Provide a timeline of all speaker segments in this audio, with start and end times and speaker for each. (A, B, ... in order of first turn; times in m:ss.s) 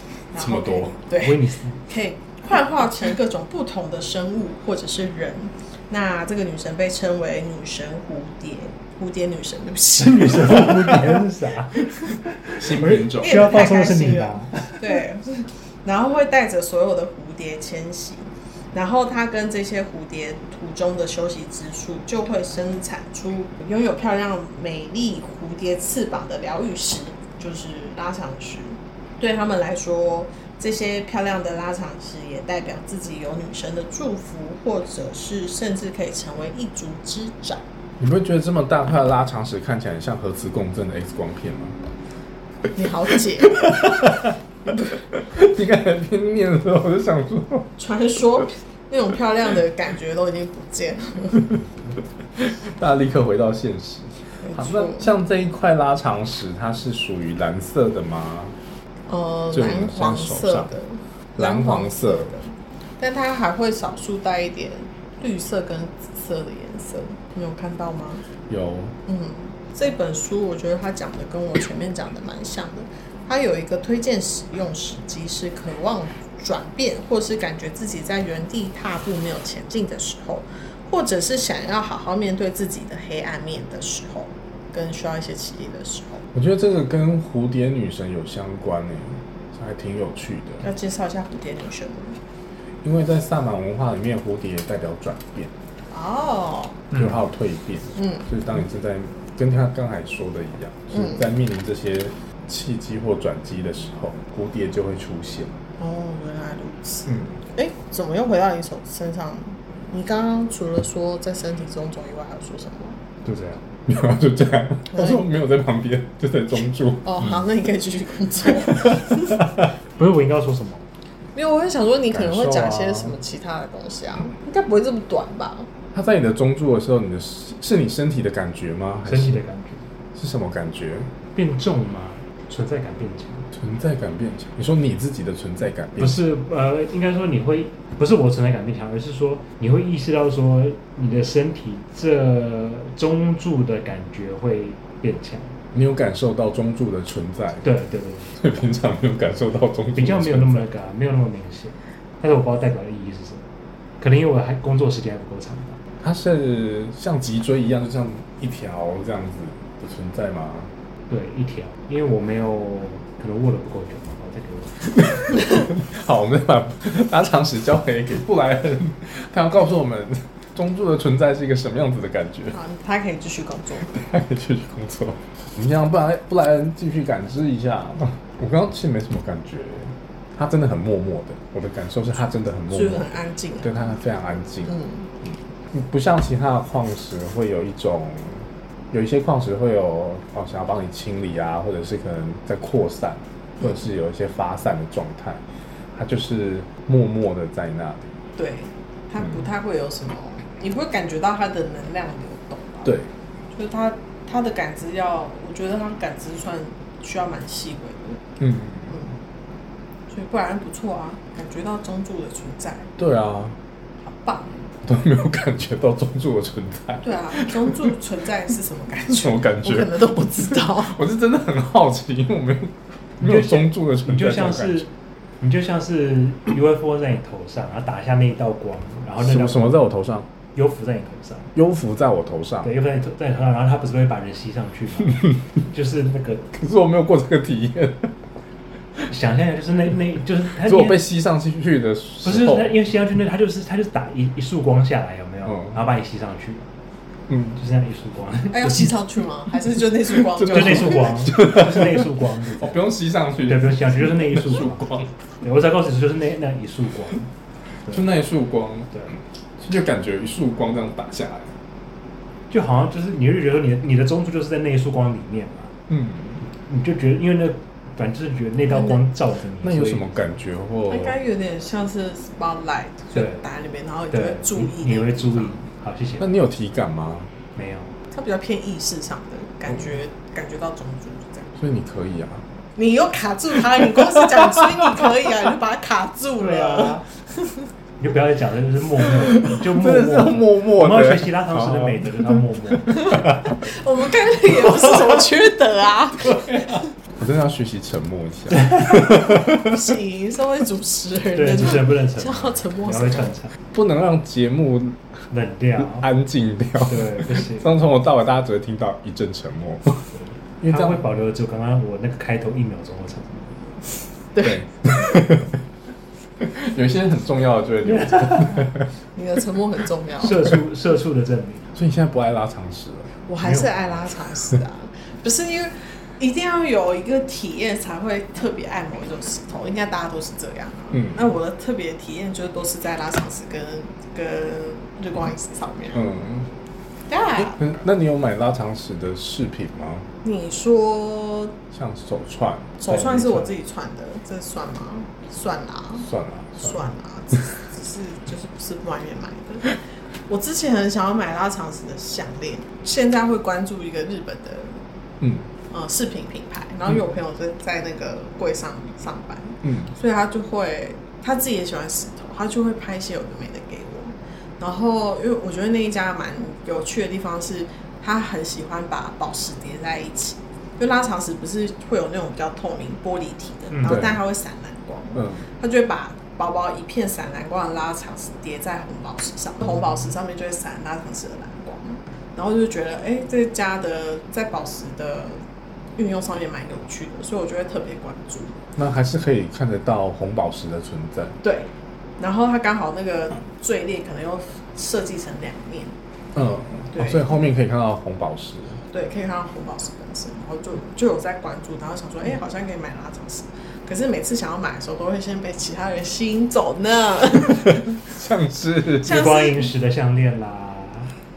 0:00.3-0:11.0 A
0:00.4-0:01.0 B
0:01.2-0:01.8 C
0:10.0-0:15.0 C
0:12.6-0:13.5 B
0:13.2-0:37.6 A
0:38.0-0:41.8 B
0:42.7-0:45.0 A
0:43.5-0:44.3 B
0:45.1-0:47.7 B
0:47.8-0:51.5 A
0:52.4-0:58.6 B
0:54.4-0:55.1 A
0:59.1-1:08.3 A
0:59.5-1:00.7 B
1:01.4-1:02.4 B
1:08.5-1:09.0 B
1:09.1-1:26.3 A
1:26.3-1:30.6 B
1:30.6-1:32.2 A
1:32.8-1:35.5 B
1:35.9-1:36.9 A
1:36.9-1:45.6 B
1:38.0-1:38.3 A
1:40.9-1:41.2 A
1:45.8-1:53.0 A
1:47.1-1:47.4 B
1:53.2-1:53.6 C
1:53.9-1:57.4 B
1:54.9-1:55.2 A
1:57.0-1:59.4 A
2:00.0-2:00.8 C
2:01.4-2:05.7 A
2:02.1-2:03.2 B
2:05.9-2:09.4 B
2:09.1-2:09.9 C
2:10.2-2:11.1 B
2:11.3-2:13.5 C
2:13.5-2:16.2 B
2:16.0-2:25.6 C
2:25.7-2:27.7 B
2:27.6-2:28.4 C
2:28.4-2:30.7 B
2:30.0-2:33.5 C
2:34.0-2:35.8 C
2:36.0-2:40.7 B
2:41.1-2:45.0 C
2:45.2-2:52.6 B
2:52.5-2:54.0 A
2:53.9-3:03.1 B
3:02.7-3:03.9 A
3:03.6-3:15.4 B
3:04.7-3:05.1 A
3:15.9-3:18.1 B
3:18.4-3:22.9 A
3:22.8-3:23.1 B
3:23.5-3:28.2 A
3:28.4-3:28.9 B
3:28.9-3:29.2 A
3:30.1-3:32.9 A
3:33.0-3:33.6 B
3:34.1-3:34.7 A
3:34.8-3:37.9 B
3:37.0-3:41.0 A
3:39.1-3:44.9 B
3:43.2-3:44.9 C
3:45.4-3:49.8 C
3:49.2-3:50.3 B
3:50.5-3:51.5 C
3:51.6-3:52.7 B
3:52.6-3:56.5 C
3:56.6-3:58.1 B
3:59.1-4:01.0 C
4:00.6-4:02.8 B
4:02.2-4:06.7 C
4:07.3-4:07.6 B
4:07.6-4:08.9 C
4:08.5-4:11.3 A
4:10.4-4:15.1 B
4:10.4-4:12.8 C
4:13.5-4:14.8 C
4:15.4-4:17.3 C
4:17.9-4:19.0 B
4:19.6-4:21.5 B
4:22.5-4:25.8 C
4:25.9-4:26.4 B
4:26.5-4:30.2 C
4:29.6-4:31.2 B
4:30.9-4:35.6 A
4:33.1-4:33.4 C
4:34.1-4:36.4 C
4:36.2-4:37.3 B
4:37.6-4:38.0 C
4:38.1-4:41.5 A
4:41.6-4:42.4 B
4:42.8-4:47.7 A
4:46.4-4:47.0 C
4:48.0-4:53.5 C
4:49.6-4:52.3 B
4:52.9-4:56.8 A
4:57.1-4:59.8 B
4:59.1-5:03.3 A
5:01.4-5:03.6 C
5:03.7-5:05.1 B
5:05.3-5:06.1 C
5:05.8-5:10.1 B
5:06.9-5:07.8 C
5:10.1-5:13.9 C
5:10.6-5:11.0 B
5:14.4-5:14.6 A
5:14.4-5:15.6 B
5:16.4-5:18.9 B
5:18.0-5:18.7 C
5:19.2-5:20.5 A
5:20.2-5:21.7 C
5:21.8-5:23.1 B
5:23.3-5:36.0 A
5:35.9-5:36.5 B
5:37.1-5:37.6 A
5:37.4-5:40.1 B
5:40.2-5:41.6 A
5:41.7-5:42.8 B
5:42.8-5:54.8 A
5:42.9-5:43.5 C
5:46.0-5:46.8 B
5:55.2-5:55.5 B
5:55.7-6:25.4 A
5:59.6-5:59.9 B
6:13.8-6:14.2 B
6:26.0-6:28.6 A
6:28.8-6:31.4 B
6:31.4-6:36.0 A
6:36.3-6:38.8 B
6:36.9-6:37.3 A
6:38.9-6:47.9 A
6:47.9-6:49.2 B
6:49.0-6:51.1 C
6:49.0-6:49.7 A